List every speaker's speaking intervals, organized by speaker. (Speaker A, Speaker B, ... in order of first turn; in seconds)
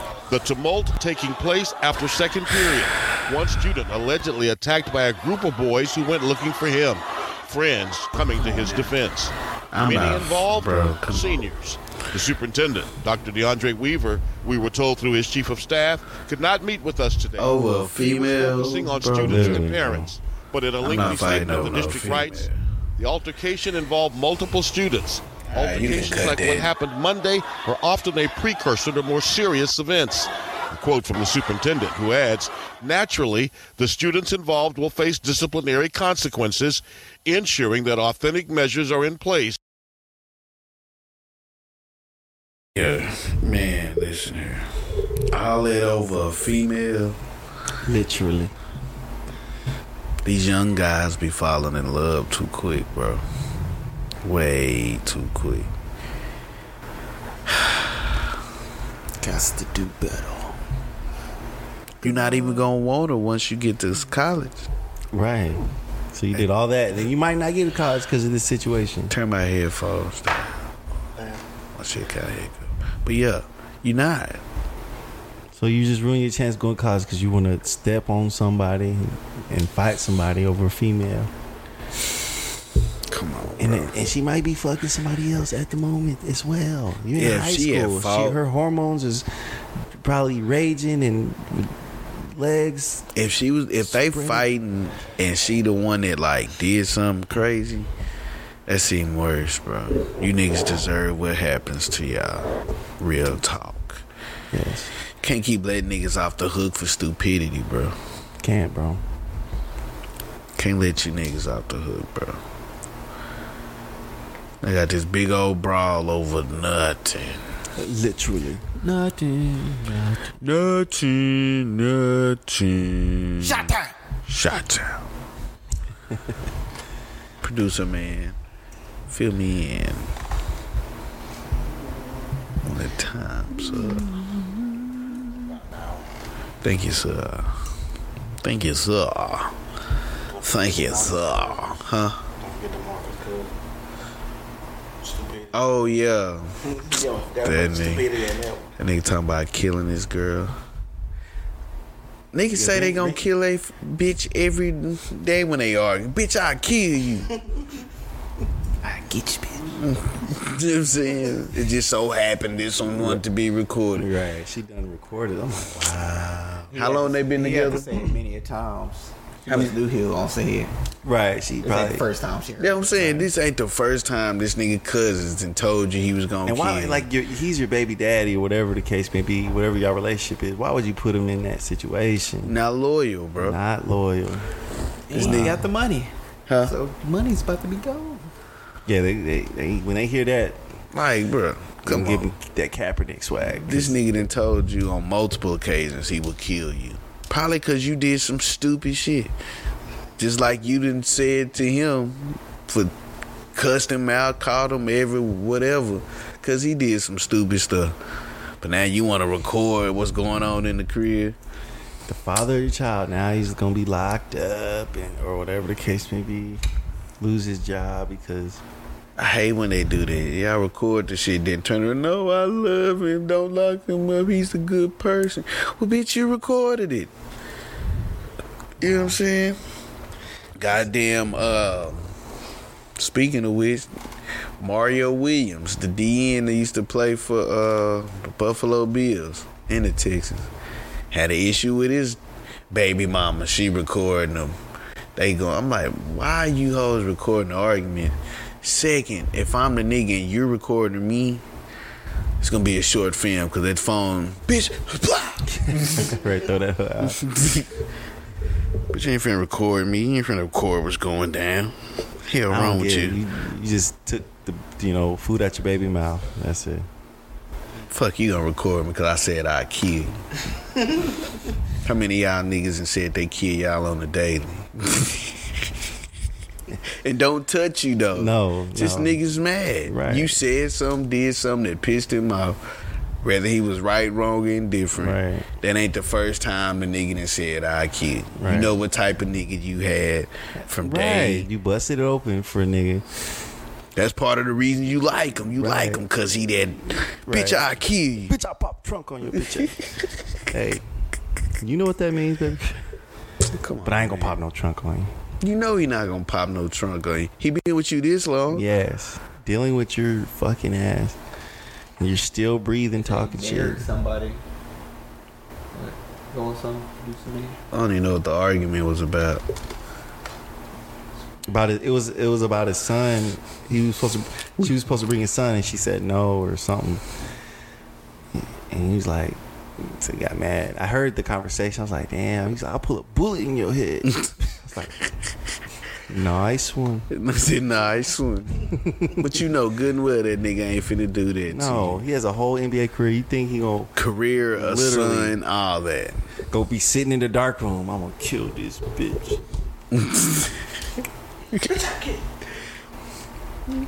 Speaker A: 0.3-39.6
Speaker B: 9.7-11.4, 17.4-19.7, 20.8-22.6, 25.5-26.7, 42.8-44.7, 45.3-47.2, 50.2-53.2, 54.2-55.7, 57.5-58.0, 62.0-64.7, 69.1-70.6, 71.8-74.4, 83.1-83.9, 87.2-88.4, 93.2-97.9, 98.7-104.0, 105.2-108.0, 110.6-112.4, 114.6-117.4, 120.4-123.7, 124.2-125.1, 127.4-128.4, 129.1-130.1, 132.6-134.1, 136.6-137.5, 138.4-139.5, 140.4-142.2, 145.5-146.6, 147.4-148.1, 148.8-150.5, 152.3-157.3, 159.8-164.1, 166.0-167.8, 172.6-177.1, 182.4-183.6, 185.2-185.5, 186.5-186.7, 190.9-192.3, 193.7-199.3, 200.2-202.9, 203.6-208.0, 208.6-211.4, 219.2-227.1, 228.8-229.6, 230.6-232.1, 233.0-233.9, 234.6-240.5, 241.1-242.2, 242.7-244.6, 245.2-251.4, 252.4-256.1, 257.1-257.7, 258.9-263.2, 267.9-270.2, 271.8-275.6, 277.0-282.6, 283.2-291.5, 294.0-298.4, 303.5-304.4, 305.4-308.7, 317.7-319.4, 337.1-342.0, 344.0-346.2, 349.9-350.5
Speaker C: 19.2-20.1, 47.8-48.5, 59.2-60.5, 65.1-65.6, 66.1-69.2, 75.5-81.3, 83.6-89.3, 89.9-93.1, 93.8-94.5, 104.5-104.9, 108.4-109.0, 117.8-118.9, 119.7-120.3, 152.5-153.2, 163.0-163.2, 163.9-166.5, 171.0-172.0, 176.4-182.6, 183.4-184.5, 185.1-185.7, 188.9-190.6, 191.8-194.0, 212.1-216.6, 217.2-218.6, 228.8-229.2, 255.5-257.6, 262.5-266.9, 278.1-279.2, 279.9-280.4, 285.0-285.5, 288.4-288.7, 290.6-293.1, 295.5-296.0, 297.3-297.6, 298.3-299.8, 300.5-300.9, 301.6-302.8, 303.8-305.1, 308.5-311.2, 312.0-313.9, 321.5-327.0, 328.3-335.0, 336.1-337.1, 338.8-339.4, 341.5-343.9, 344.5-345.4, 346.5-349.4
Speaker D: 71.2-71.4, 135.5-136.1, 140.3-141.8, 142.4-143.6, 145.0-145.7, 146.6-148.7, 351.8-352.2
Speaker E: 118.8-119.9, 123.5-123.9, 158.8-159.8, 166.7-170.7, 171.6-173.3, 185.1-188.3, 313.0-314.4, 315.7-317.6